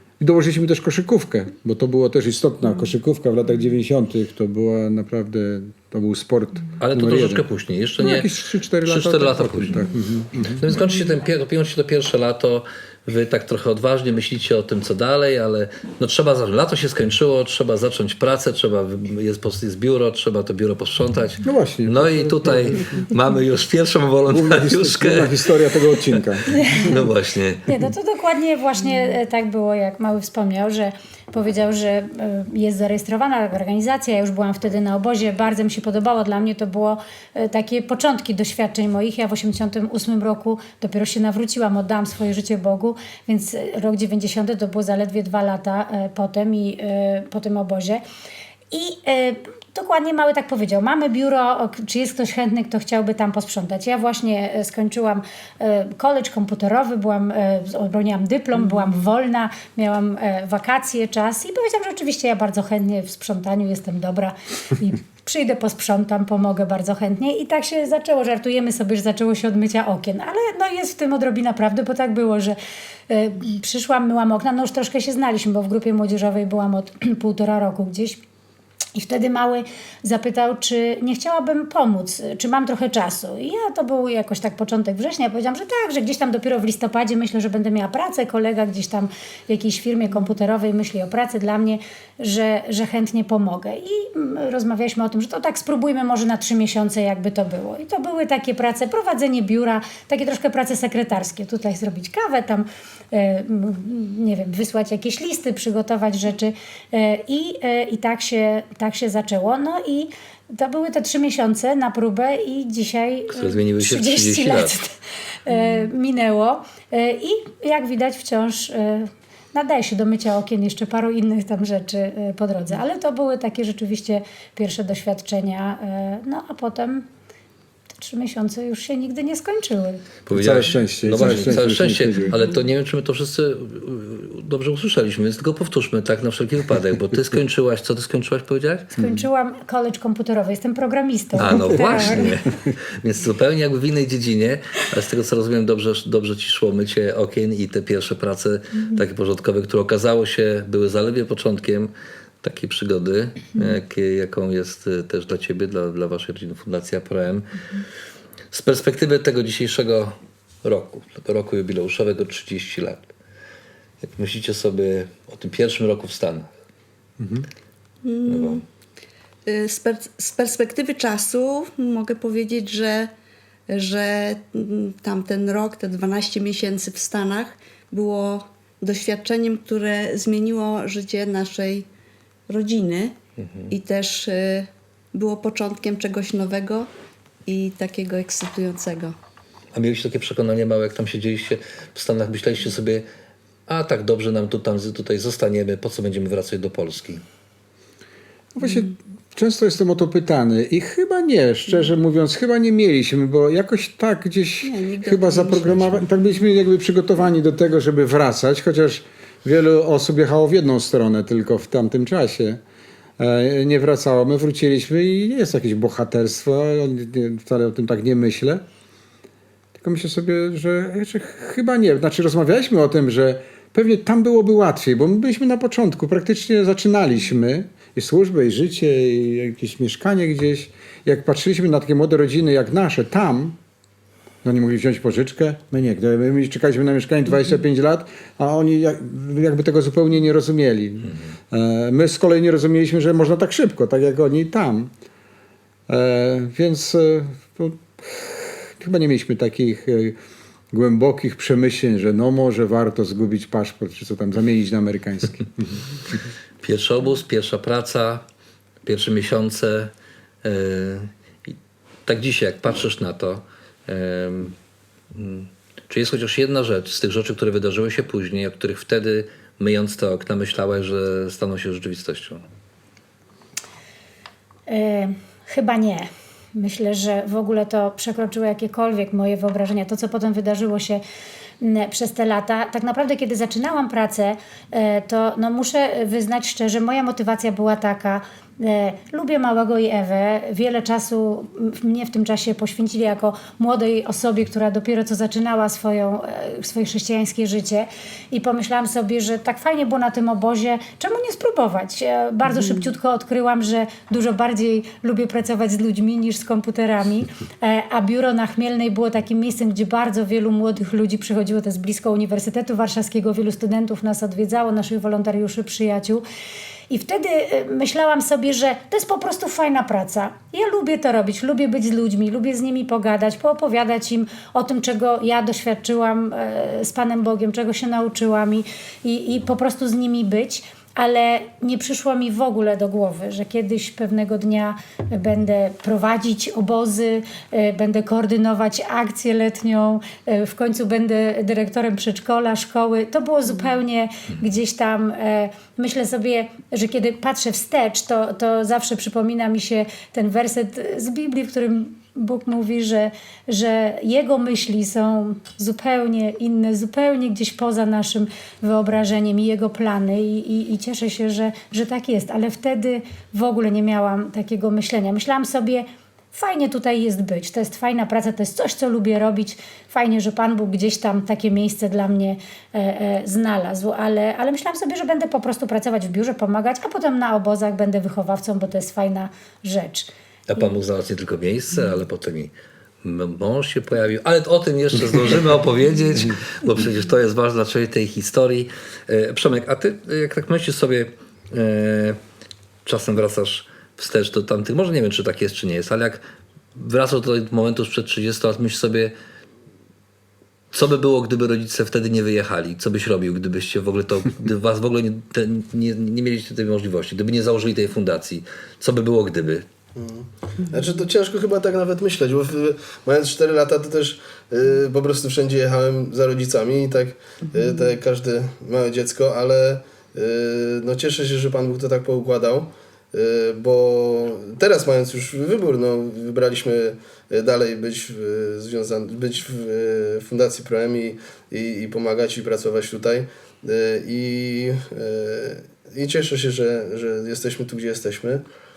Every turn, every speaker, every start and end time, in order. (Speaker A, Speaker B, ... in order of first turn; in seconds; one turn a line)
Speaker A: 0.2-7.5
Speaker B: 6.8-8.3
Speaker A: 8.0-10.7
Speaker B: 8.8-9.8
Speaker B: 10.6-25.5
Speaker A: 21.4-22.8
Speaker A: 24.3-26.6
Speaker B: 26.0-27.7
Speaker C: 27.7-48.0
Speaker C: 48.7-72.6
Speaker C: 73.1-78.2
Speaker C: 79.0-115.0
Speaker B: 113.3-114.8
Speaker C: 115.5-127.1
Speaker C: 128.0-130.0
Speaker B: 130.3-138.9
Speaker A: 130.3-132.4
Speaker C: 138.9-142.4
Speaker A: 139.0-139.3
Speaker B: 141.4-157.8
Speaker B: 158.5-163.1
Speaker B: 164.0-166.5
Speaker A: 167.2-167.5
Speaker D: 168.0-168.7
Speaker B: 168.3-168.6
Speaker D: 169.5-173.1
Speaker D: 173.7-181.9
Speaker D: 182.5-183.2
Speaker B: 183.4-183.7
Speaker D: 183.7-186.9
Speaker D: 187.5-189.2
Speaker B: 189.7-193.1
Speaker B: 193.7-197.2
Speaker A: 198.6-212.6
Speaker D: 204.7-205.9
Speaker A: 213.2-218.6
Speaker A: 219.8-233.6
Speaker A: 234.4-244.9
Speaker A: 245.9-250.2
Speaker A: 250.7-255.8
Speaker B: 256.6-258.2
Speaker B: 258.8-259.9
Speaker B: 260.4-261.5
Speaker B: 262.1-264.6
Speaker B: 265.1-272.4
Speaker C: 274.7-281.0
Speaker C: 281.6-316.2
Speaker D: 302.4-302.8
Speaker C: 316.9-380.1
Speaker B: 380.5-382.5
Speaker B: 383.0-392.2
Speaker B: 392.9-396.2
Speaker B: 396.8-399.1
Speaker B: 400.7-409.6
Speaker E: 409.9-438.4